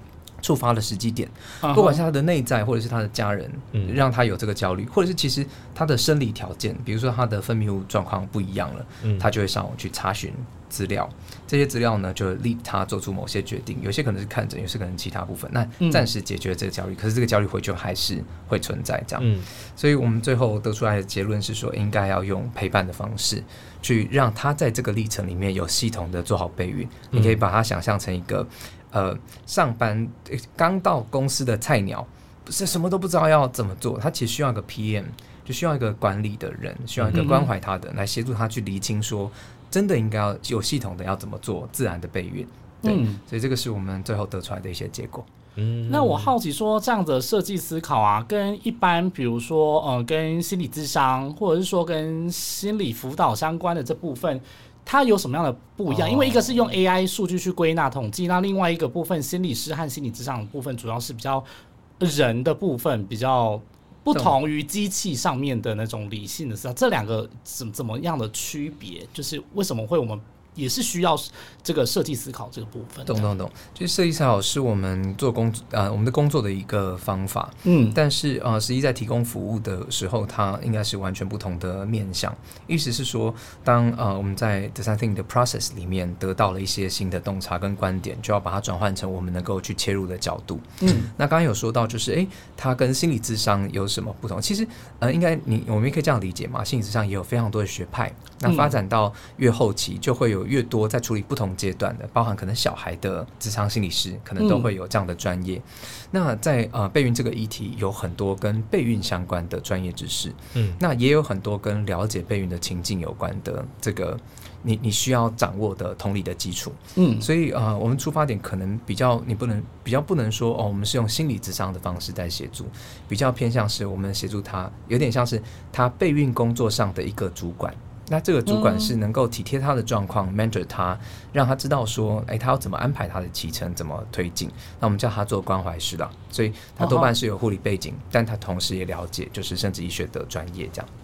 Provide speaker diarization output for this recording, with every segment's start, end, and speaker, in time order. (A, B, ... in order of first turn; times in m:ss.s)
0:00.4-0:45.3 A
0:01.6-0:02.0 B
0:03.7-0:04.0 C
0:09.0-0:09.3 C
0:15.8-0:16.0 B
0:19.2-0:19.5 C
0:27.1-0:27.4 C
0:37.0-0:37.3 C
0:37.1-0:37.5 B
0:42.8-0:43.2 B
0:45.6-0:46.3 C
0:45.9-1:01.4 B
0:55.9-0:56.6 C
1:02.0-1:13.3 B
1:13.0-2:20.9 A
1:17.6-1:18.0 B
1:30.8-1:31.1 B
1:38.4-1:38.8 B
1:44.4-1:44.7 B
1:50.5-1:50.8 C
1:57.0-1:57.3 B
2:08.5-2:08.9 B
2:16.8-2:17.1 B